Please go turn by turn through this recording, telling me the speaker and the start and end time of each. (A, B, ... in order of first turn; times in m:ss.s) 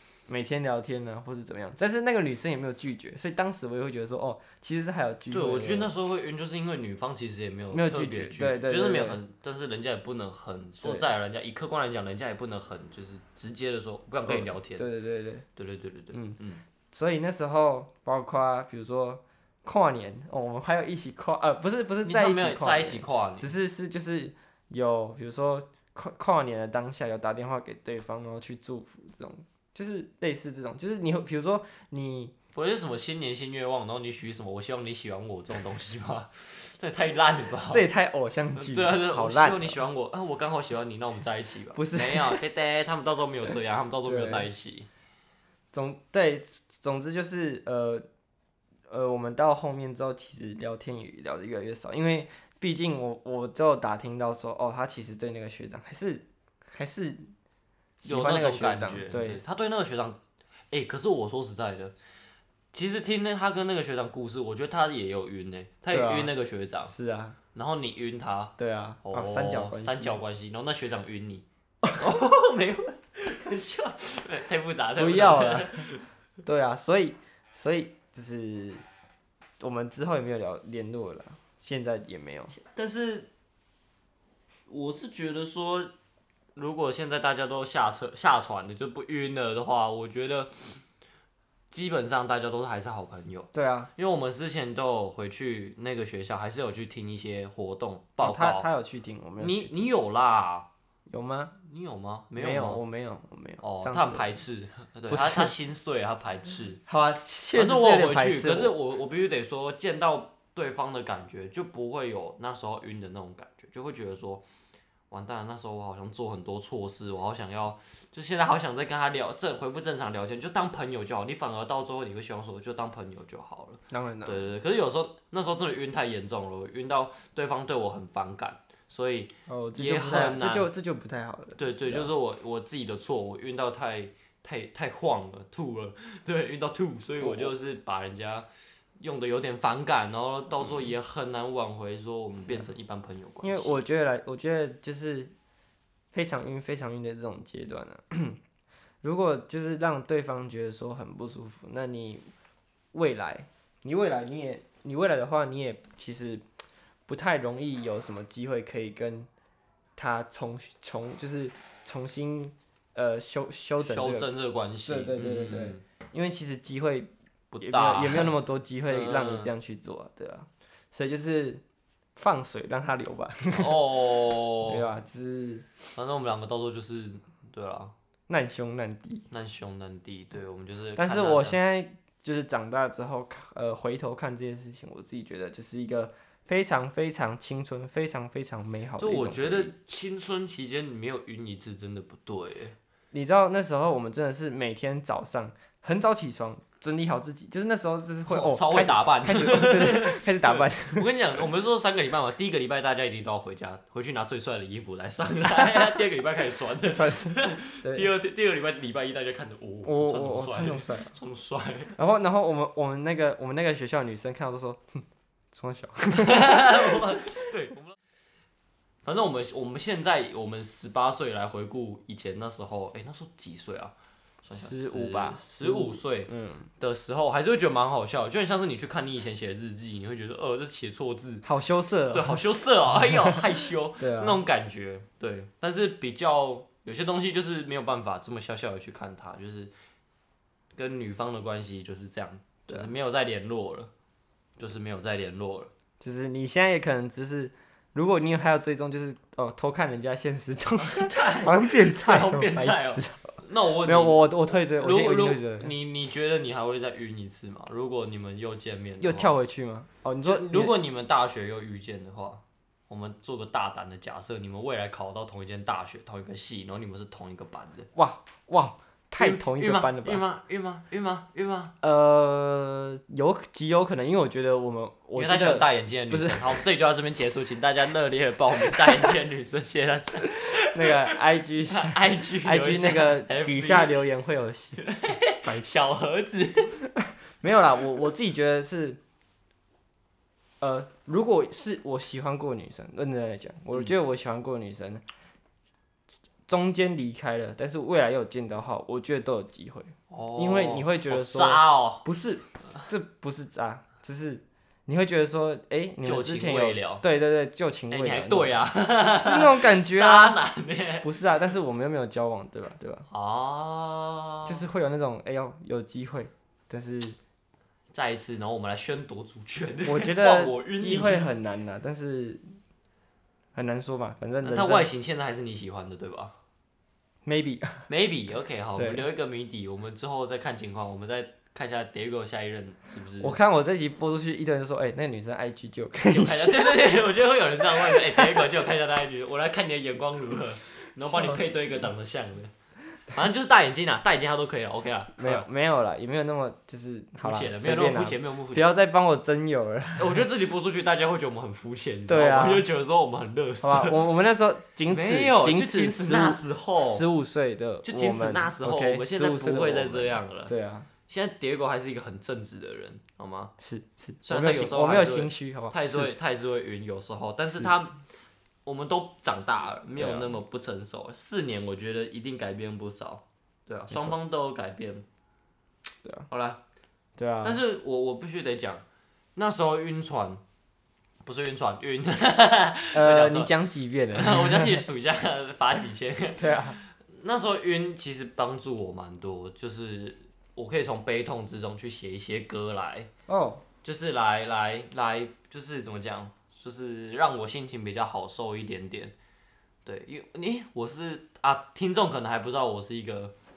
0:00.3-0:05.9 A
0:05.3-0:14.8 B
0:07.7-0:09.2 A
0:10.8-0:11.1 A
0:14.2-0:15.4 A
0:15.6-0:16.6 B
0:16.1-0:16.4 A
0:16.9-0:32.3 A
0:22.0-0:23.5 B
0:32.5-0:37.8 B
0:37.7-0:39.8 A
0:38.5-0:44.9 B
0:41.7-0:42.4 A
0:44.0-0:44.5 A
0:45.7-0:48.0 A
0:48.9-0:57.3 A
0:58.0-0:59.4 A
0:58.0-1:00.2 B
1:00.7-1:01.9 B
1:02.7-1:06.9 B
1:05.9-1:06.3 A
1:06.9-1:07.4 A
1:07.5-1:16.0 B
1:08.6-1:10.2 A
1:15.0-1:15.9 A
1:16.4-1:18.8 A
1:19.6-1:22.5 A
1:22.5-1:23.3 B
1:24.7-1:25.9 B
1:26.6-1:30.8 B
1:31.7-1:38.6 B
1:33.5-1:33.9 A
1:38.2-1:39.7 A
1:39.4-1:40.7 B
1:41.1-1:41.5 A
1:41.6-1:42.8 B
1:42.3-1:44.3 A
1:43.6-1:46.8 B
1:45.1-1:45.5 A
1:46.9-1:48.7 A
1:47.5-1:54.4 B
1:55.1-2:10.7 B
2:03.9-2:04.4 A
2:09.5-2:12.1 A
2:11.6-2:18.5 B
2:17.2-2:17.5 A
2:19.0-2:23.8 B
2:22.4-2:22.7 A
2:23.4-2:25.3 A
2:26.1-2:28.4 A
2:29.0-2:32.3 A
2:32.9-2:36.4 A
2:37.1-2:39.3 A
2:40.0-2:44.3 A
2:43.8-2:45.8 B
2:44.8-2:47.1 A
2:47.5-2:48.3 B
2:47.6-2:51.6 A
2:48.9-2:49.5 B
2:52.2-2:55.8 A
2:53.5-2:54.8 B
2:56.0-2:57.9 B
2:58.3-2:59.3 A
2:59.3-3:01.6 B
3:01.0-3:09.7 A
3:09.0-3:12.8 B
3:13.1-3:21.1 A
3:18.3-3:31.9 B
3:25.5-3:26.0 A
3:26.8-3:28.1 A
3:29.8-3:31.1 A
3:32.0-3:37.4 A
3:36.1-3:38.0 B
3:39.0-3:51.4 B
3:44.5-3:46.7 A
3:51.4-3:53.4 A
3:52.1-3:59.7 B
3:54.0-3:54.4 A
4:00.7-4:03.9 B
4:04.6-4:05.7 B
4:06.0-4:15.7 A
4:10.8-4:19.3 B
4:19.0-4:20.7 A
4:20.2-4:27.9 B
4:27.9-4:30.2 A
4:29.2-4:31.7 B
4:31.8-4:36.6 A
4:35.2-4:44.0 B
4:40.4-4:44.8 A
4:44.8-4:46.8 B
4:45.4-4:45.9 A
4:47.0-4:49.0 A
4:50.6-4:55.0 A
4:56.5-5:08.5 A
5:00.1-5:02.0 B
5:06.0-5:07.0 B
5:07.9-5:11.1 B
5:09.2-5:10.4 A
5:11.0-5:13.1 A
5:13.1-5:14.6 B
5:14.4-5:17.2 A
5:17.9-5:21.3 B
5:19.8-5:22.4 A
5:23.5-5:24.9 A
5:24.4-5:26.3 B
5:27.2-5:27.9 A
5:27.9-5:33.4 B
5:28.8-5:29.0 A
5:33.2-5:37.0 A
5:36.0-5:42.5 B
5:37.6-5:38.5 A
5:41.1-5:41.4 A
5:43.1-5:45.4 B
5:45.2-5:50.2 A
5:47.2-5:48.7 B
5:50.0-5:54.0 B
5:52.1-5:52.6 A
5:53.6-6:00.9 A
5:54.9-5:57.0 B
5:57.8-6:00.5 B
6:01.1-6:03.5 B
6:03.6-6:06.1 A
6:04.2-6:08.0 B
6:07.4-6:07.7 A
6:08.6-6:15.0 B
6:10.0-6:10.3 A
6:13.9-6:14.2 A
6:16.3-6:16.6 B
6:17.2-6:17.6 A
6:17.4-6:18.8 B
6:19.4-6:20.4 B
6:21.2-6:23.5 B
6:22.9-6:24.9 A
6:24.1-6:33.1 B
6:26.4-6:26.8 A
6:33.3-6:33.6 A
6:33.8-6:39.1 B
6:39.8-6:43.3 B